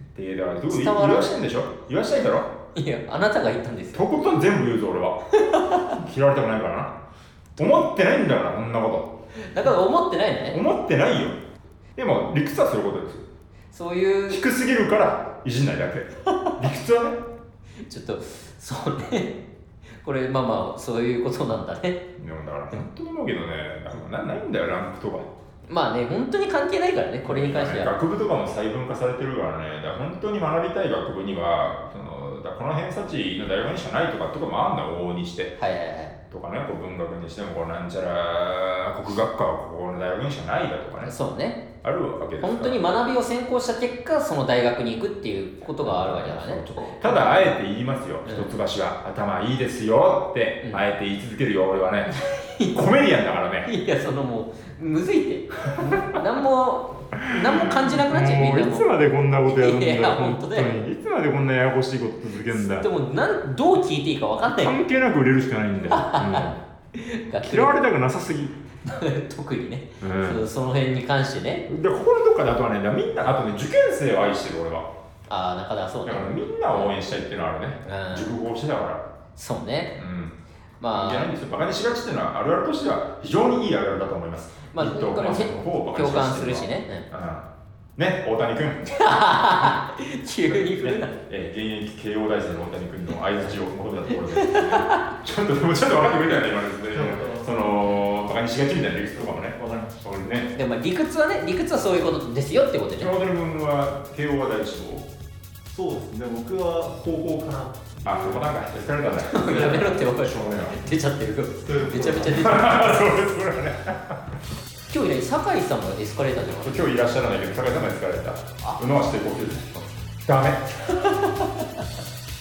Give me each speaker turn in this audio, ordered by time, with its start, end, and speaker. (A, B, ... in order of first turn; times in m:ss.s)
0:00.1-0:02.5 A
0:00.7-0:01.4 B
0:02.7-0:04.3 B
0:03.9-0:07.0 A
0:05.4-0:06.0 B
0:07.6-0:09.2 A
0:09.4-0:10.6 B
0:10.5-0:11.4 A
0:12.0-0:13.3 A
0:13.7-0:14.4 B
0:14.3-0:17.2 A
0:16.2-0:16.6 B
0:17.8-0:19.4 B
0:20.0-0:22.1 B
0:22.2-0:25.3 A
0:25.7-0:27.9 B
0:27.2-0:35.6 A
0:35.6-0:36.2 B
0:36.3-0:41.2 A
0:41.0-0:41.7 B
0:41.8-0:42.9 A
0:42.4-0:47.6 B
0:45.8-0:52.1 A
0:48.2-0:48.5 B
0:52.1-0:52.8 B
0:52.7-0:53.7 A
0:53.6-0:58.9 B
0:55.8-0:56.2 A
0:57.2-1:02.9 A
0:59.4-1:00.8 B
1:02.5-1:04.8 B
1:04.4-1:06.6 A
1:05.9-1:07.8 B
1:07.4-1:08.6 A
1:08.8-1:11.7 B
1:10.0-1:10.4 A
1:11.7-1:14.9 A
1:15.3-1:16.9 B
1:16.0-1:19.1 A
1:17.8-1:18.4 B
1:19.4-1:20.0 B
1:20.0-1:20.4 A
1:20.8-1:21.3 B
1:20.9-1:29.0 A
1:24.7-1:27.1 B
1:28.8-1:31.2 B
1:30.5-1:40.5 A
1:34.1-1:35.1 B
1:36.9-1:37.8 C
1:39.2-1:40.1 C
1:40.5-1:43.1 B
1:43.0-1:45.1 A
1:45.7-1:50.0 C
1:48.0-1:50.8 A
1:49.0-1:53.2 B
1:51.6-1:52.6 C
1:52.2-1:54.3 A
1:54.9-1:56.9 B
1:56.6-2:01.2 A
2:00.9-2:01.6 B